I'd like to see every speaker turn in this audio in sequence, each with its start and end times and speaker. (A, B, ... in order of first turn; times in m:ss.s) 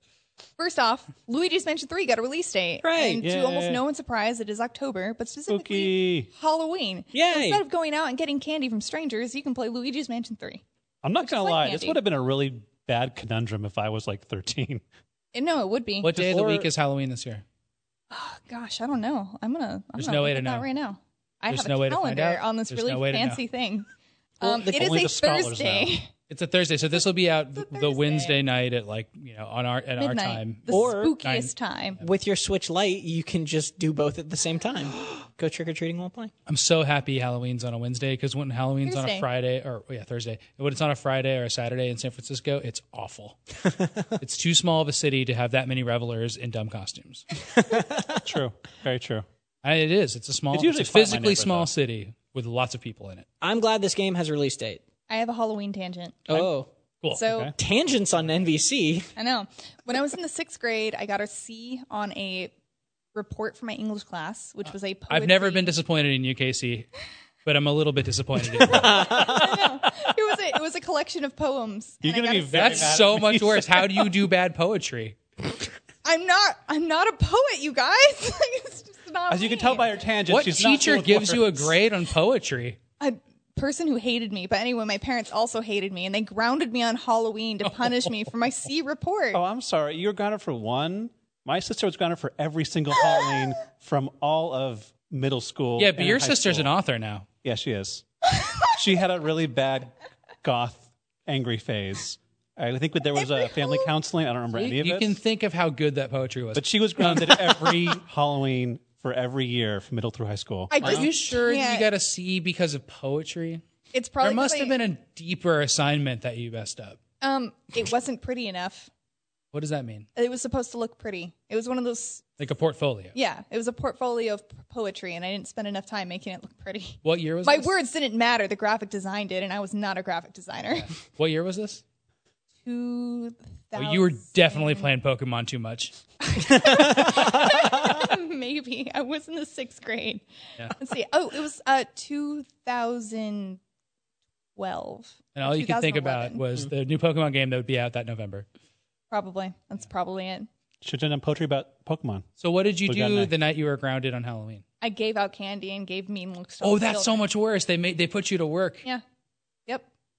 0:00.6-0:10.6 A
0:02.8-0:03.2 B
0:03.2-0:03.8 C
0:05.5-0:06.3 C
0:07.1-0:07.6 B
0:11.0-0:14.8 C
0:11.2-0:12.0 A
0:15.3-0:16.1 A
0:16.0-0:17.4 D
0:16.1-0:16.7 C
0:18.1-0:23.9 A
0:20.0-0:20.7 D
0:21.5-0:23.4 D
0:24.4-0:26.1 A
0:24.4-0:26.0 C
0:26.3-0:31.5 D
0:27.5-0:28.4 A
0:30.0-0:32.0 A
0:30.7-0:31.2 B
0:32.0-0:36.3 B
0:36.5-0:43.4 D
0:38.8-0:39.2 A
0:43.6-0:44.1 B
0:44.2-0:47.2 D
0:47.5-0:48.2 B
0:48.0-0:49.2 C
0:49.6-0:53.2 D
0:50.5-0:51.7 C
0:53.4-0:54.8 B
0:55.1-0:56.2 A
0:56.3-0:56.7 B
0:57.1-0:57.5 A
0:57.2-0:57.5 C
0:57.6-0:59.1 B
0:59.2-1:02.5 A
1:03.1-1:05.7 A
1:05.1-1:06.9 D
1:07.4-1:09.3 D
1:08.7-1:09.5 B
1:08.8-1:09.5 C
1:08.9-1:12.9 A
1:12.0-1:14.1 C
1:12.5-1:15.2 D
1:16.0-1:19.9 A
1:19.3-1:21.8 C
1:20.3-1:22.8 D
1:23.0-1:29.4 A
1:27.7-1:28.1 D
1:29.3-1:36.7 C
1:35.8-1:37.3 D
1:37.4-1:45.1 C
1:43.3-1:43.8 A
1:44.5-1:48.0 D
1:46.5-1:50.7 C
1:50.7-1:51.9 A
1:50.8-1:53.6 D
1:50.8-1:51.1 B
1:53.9-1:54.8 A
1:54.2-1:57.0 D
1:57.2-1:58.9 A
1:59.5-2:00.1 D
2:00.2-2:02.4 A
2:02.4-2:03.2 D
2:03.1-2:10.9 A
2:07.0-2:07.7 D
2:10.7-2:11.8 D
2:12.6-2:14.8 A
2:13.7-2:15.9 D
2:16.2-2:23.6 A
2:16.5-2:18.0 B
2:24.6-2:26.4 A
2:25.3-2:28.5 D
2:29.1-2:30.5 A
2:30.8-2:32.3 C
2:32.4-2:34.6 D
2:32.8-2:33.3 C
2:34.8-2:37.2 A
2:36.6-2:38.8 D